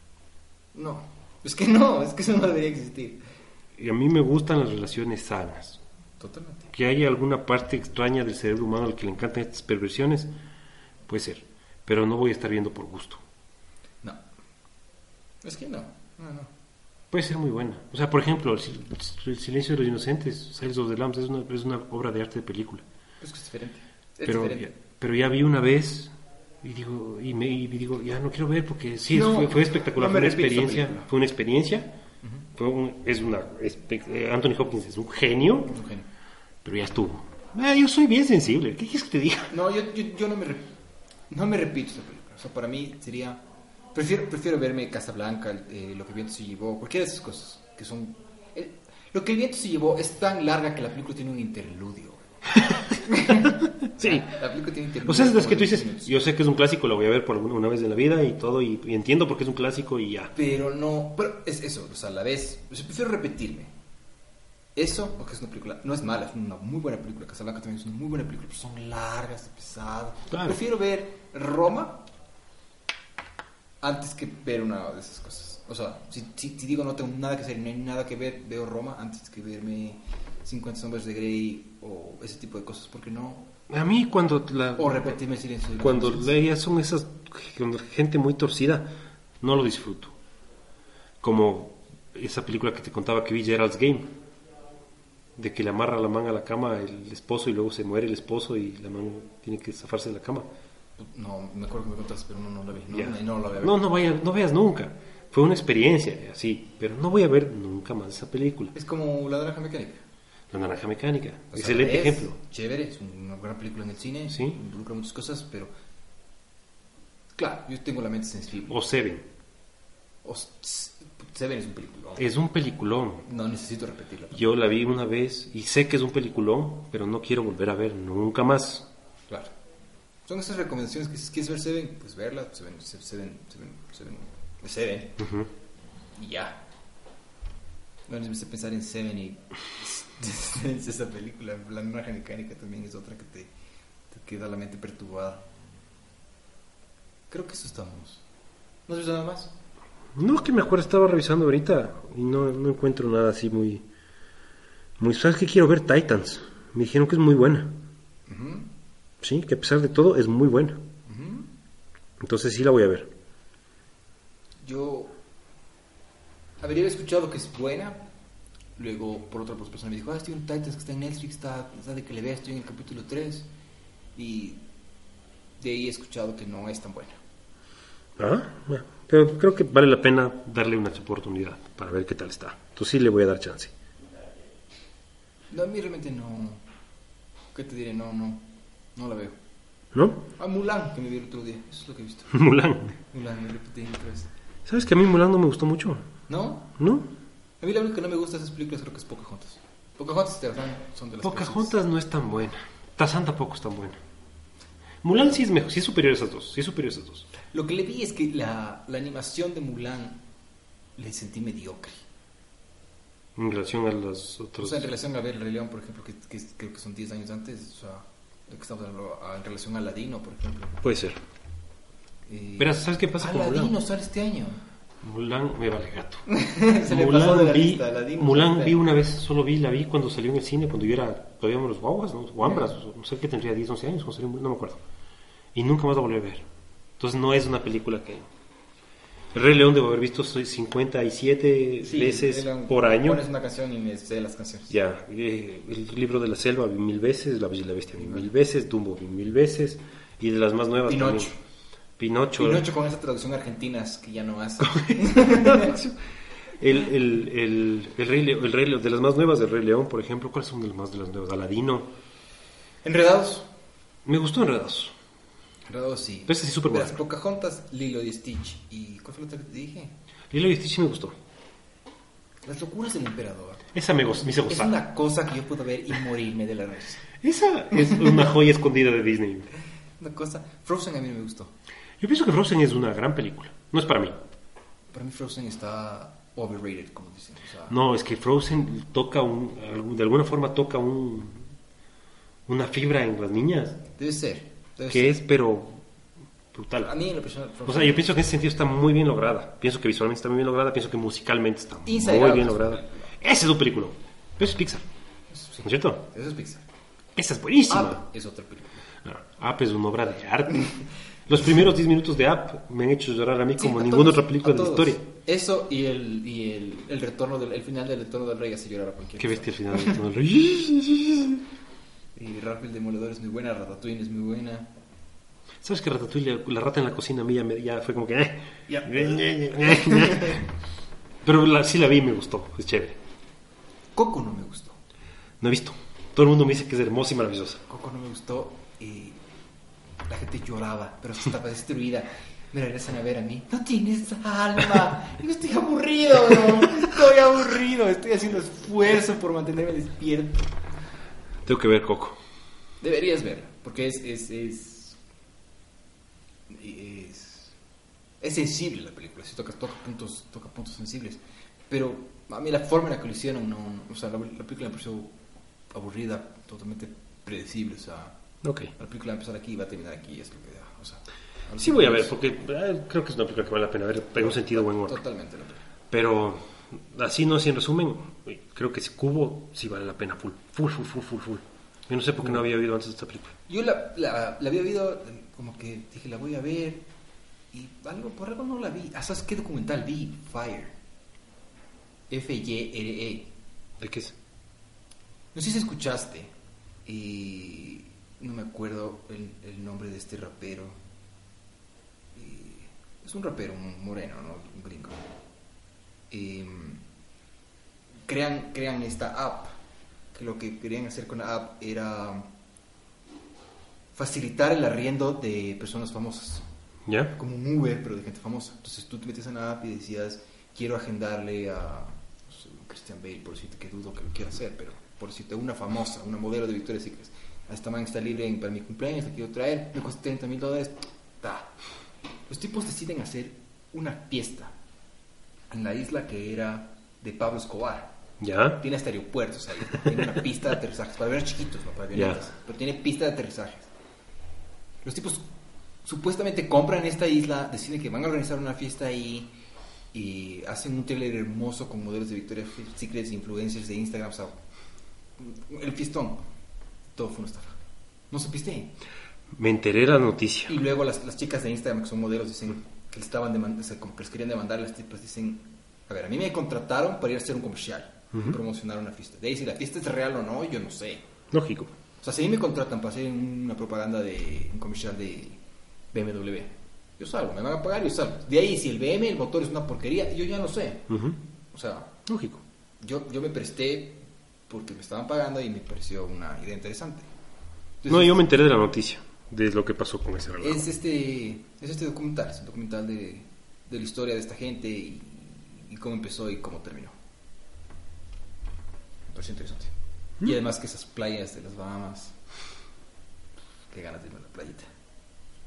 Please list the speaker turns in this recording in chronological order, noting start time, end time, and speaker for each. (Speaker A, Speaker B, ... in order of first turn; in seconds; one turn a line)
Speaker A: 0.7-3.2
Speaker B: 3.8-5.8
Speaker A: 6.2-6.7
Speaker B: 6.7-10.3
Speaker B: 11.1-13.2
Speaker A: 15.4-16.5
Speaker B: 17.1-22.8
Speaker A: 23.2-24.8
Speaker B: 24.2-32.0
Speaker A: 29.1-31.1
Speaker A: 32.2-32.5
Speaker B: 32.6-35.7
Speaker A: 35.7-36.1
Speaker B: 36.6-39.5
Speaker A: 39.5-40.7
Speaker A: 41.3-43.4
Speaker A: 44.0-52.2
Speaker A: 53.0-56.2
Speaker B: 53.5-54.2
Speaker B: 55.0-60.3
Speaker A: 60.4-63.7
Speaker A: 64.8-72.0
Speaker B: 70.3-70.6
Speaker A: 73.8-83.5
Speaker B: 83.7-85.2
Speaker A: 84.8-86.3
Speaker B: 85.8-90.2
Speaker B: 91.2-94.2
Speaker B: 95.4-100.5
Speaker A: 101.0-103.8
Speaker B: 102.9-108.7
Speaker A: 108.8-110.0
Speaker B: 110.5-112.3
Speaker A: 111.5-115.7
Speaker A: 117.4-118.8
Speaker B: 118.7-119.3
Speaker A: 120.2-122.3
Speaker B: 122.2-123.2
Speaker A: 123.3-124.5
Speaker B: 124.3-128.9
Speaker A: 130.3-135.3
Speaker B: 135.2-135.5
Speaker A: 136.2-136.7
Speaker A: 138.1-143.5
Speaker A: 144.1-145.4
Speaker A: 147.3-148.2
Speaker A: 148.9-149.5
Speaker B: 150.2-153.8
Speaker B: 155.0-157.8
Speaker A: 158.3-158.7
Speaker B: 159.2-160.8
Speaker A: 161.1-161.5
Speaker B: 162.2-163.1
Speaker A: 164.6-165.2
Speaker A: 166.6-168.0
Speaker A: 168.8-173.5
Speaker A: 174.2-174.6
Speaker A: 175.6-177.2
Speaker B: 178.2-183.7
Speaker A: 185.5-186.6
Speaker A: 187.5-189.4
Speaker B: 189.9-190.2
Speaker A: 190.4-192.4
Speaker B: 192.3-192.9
Speaker A: 193.0-194.3
Speaker B: 194.7-196.1
Speaker A: 196.3-196.8
Speaker B: 196.8-197.1
Speaker A: 197.6-201.8
Speaker B: 201.2-204.0
Speaker B: 205.0-207.3
Speaker A: 207.5-210.2
Speaker A: 211.0-212.0
Speaker B: 213.4-214.9
Speaker A: 214.6-220.8
Speaker B: 220.8-221.2
Speaker A: 222.3-224.6
Speaker B: 222.6-223.8
Speaker B: 225.0-226.2
Speaker A: 226.3-228.8
Speaker B: 226.8-234.8
Speaker A: 232.4-232.7
Speaker B: 235.5-236.5
Speaker B: 237.0-238.3
Speaker B: 239.3-243.2
Speaker A: 241.8-244.8
Speaker B: 244.7-251.3
Speaker A: 250.9-251.4
Speaker B: 252.0-252.7
Speaker A: 252.4-255.9
Speaker B: 254.7-256.0
Speaker B: 256.6-261.9
Speaker A: 262.8-263.5
Speaker B: 264.1-264.9
Speaker A: 265.7-269.9
Speaker B: 266.3-267.0
Speaker B: 270.3-271.1
Speaker A: 272.4-273.7
Speaker B: 273.7-274.8
Speaker A: 274.5-277.1
Speaker B: 277.2-279.5
Speaker A: 280.0-281.5
Speaker B: 282.0-284.2
Speaker A: 284.9-287.8
Speaker B: 287.7-291.5
Speaker B: 292.5-293.8
Speaker A: 293.9-295.2
Speaker B: 294.9-295.9
Speaker B: 296.5-296.9
Speaker A: 296.8-298.1
Speaker B: 297.7-304.8
Speaker A: 301.9-303.1
Speaker A: 305.3-306.6
Speaker B: 305.6-306.0
Speaker B: 307.2-308.1
Speaker A: 307.7-308.9
Speaker B: 309.0-315.0
Speaker A: 313.6-320.0
Speaker B: 319.2-321.4
Speaker A: 322.1-324.7
Speaker B: 325.6-330.4
Speaker A: 328.7-330.4
Speaker B: 331.2-333.0
Speaker A: 333.9-334.8
Speaker B: 335.4-337.6
Speaker A: 337.7-339.2
Speaker A: 340.1-350.6
Speaker B: 351.4-352.2
Speaker A: 352.8-355.0
Speaker A: 356.5-357.5
Speaker A: 358.2-365.1
Speaker A: 365.7-368.2
Speaker B: 368.4-368.7
Speaker A: 368.8-372.1
Speaker B: 371.6-375.0
Speaker A: 374.2-375.6
Speaker B: 375.9-383.4
Speaker A: 383.5-386.9
Speaker A: 387.5-390.7
Speaker A: 392.1-393.3
Speaker B: 393.8-394.1
Speaker A: 395.3-396.3
Speaker A: 396.9-400.8
Speaker A: 402.1-405.1
Speaker A: 406.1-406.8
Speaker A: 408.1-409.5
Speaker A: 410.1-412.3
Speaker A: 413.9-416.4
Speaker B: 416.9-417.1
Speaker A: 417.1-431.5
Speaker A: 432.3-434.5
Speaker A: 435.5-438.0
Speaker B: 438.2-438.6
Speaker A: 438.6-443.7
Speaker B: 441.9-442.2
Speaker A: 444.9-445.3
Speaker A: 445.9-449.3
Speaker A: 449.9-454.4
Speaker A: 455.2-456.2
Speaker A: 457.0-457.6
Speaker A: 458.1-458.7
Speaker B: 459.3-460.6
Speaker A: 460.5-471.1
Speaker B: 471.3-471.7
Speaker A: 472.0-475.4
Speaker A: 475.9-480.9
Speaker B: 480.9-481.2
Speaker A: 481.5-482.0
Speaker B: 482.1-482.4
Speaker A: 482.8-487.1
Speaker A: 487.8-488.3
Speaker B: 487.9-490.6
Speaker A: 490.4-496.9
Speaker A: 499.1-502.2
Speaker A: 503.7-504.7